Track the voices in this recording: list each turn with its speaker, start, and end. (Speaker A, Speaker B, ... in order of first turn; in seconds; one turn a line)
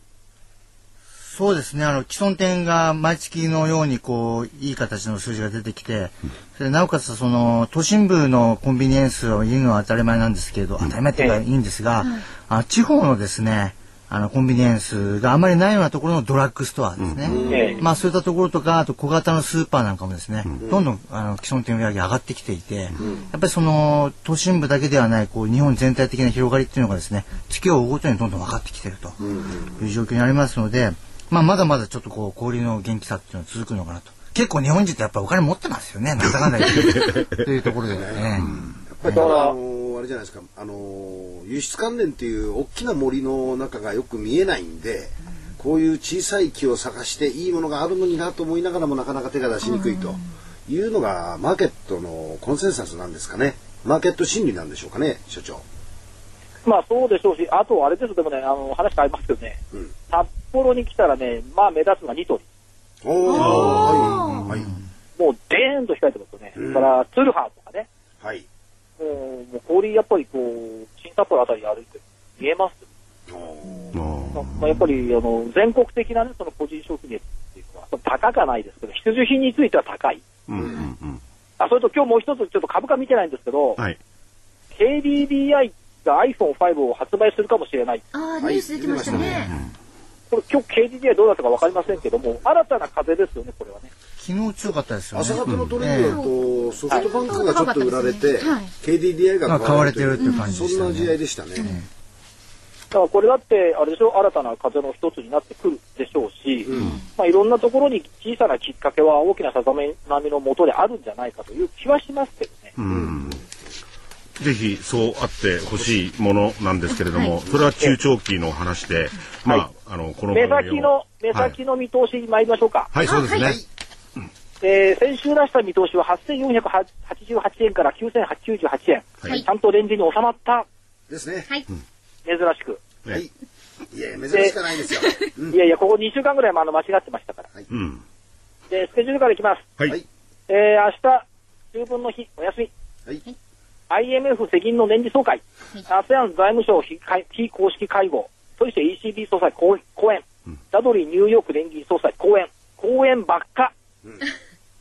Speaker A: 1.3-29.1
Speaker B: 17.0-17.4
Speaker C: 17.2-17.7
Speaker D: 17.4-17.9
Speaker E: 17.5-17.8
Speaker C: 29.2-29.9
Speaker A: 29.8-38.5
Speaker B: 36.5-37.5
Speaker C: 37.9-38.3
Speaker B: 38.4-38.8
Speaker C: 38.9-55.6
Speaker E: 39.1-39.5
Speaker D: 49.6-50.2
Speaker E: 56.6-59.6
Speaker E: 60.1-62.4
Speaker C: 63.0-64.7
Speaker D: 63.2-64.5
Speaker B: 63.4-64.5
Speaker E: 65.2-67.9
Speaker C: 66.6-66.9
Speaker C: 68.2-68.5
Speaker E: 69.0-72.8
Speaker C: 73.3-73.7
Speaker B: 73.9-74.6
Speaker E: 74.3-80.2
Speaker B: 80.5-81.2
Speaker E: 81.6-83.8
Speaker E: 84.8-88.0
Speaker D: 88.1-89.5
Speaker C: 88.4-89.5
Speaker B: 89.1-89.7
Speaker E: 90.3-93.9
Speaker A: 94.2-96.2
Speaker C: 95.1-101.7
Speaker B: 95.5-95.7
Speaker D: 95.9-96.3
Speaker D: 96.9-98.7
Speaker A: 99.5-101.8
Speaker D: 100.2-100.6
Speaker E: 102.9-112.7
Speaker C: 106.7-106.9
Speaker D: 106.8-107.0
Speaker B: 112.8-113.4
Speaker B: 114.4-121.5
Speaker D: 117.1-117.4
Speaker E: 120.3-122.9
Speaker B: 122.9-123.6
Speaker D: 123.0-123.5
Speaker C: 123.3-123.6
Speaker E: 124.6-130.7
Speaker C: 131.1-131.5
Speaker E: 132.2-132.8
Speaker C: 133.9-135.6
Speaker E: 135.5-137.5
Speaker B: 137.7-138.0
Speaker E: 138.7-139.7
Speaker E: 140.5-142.7
Speaker E: 143.9-153.7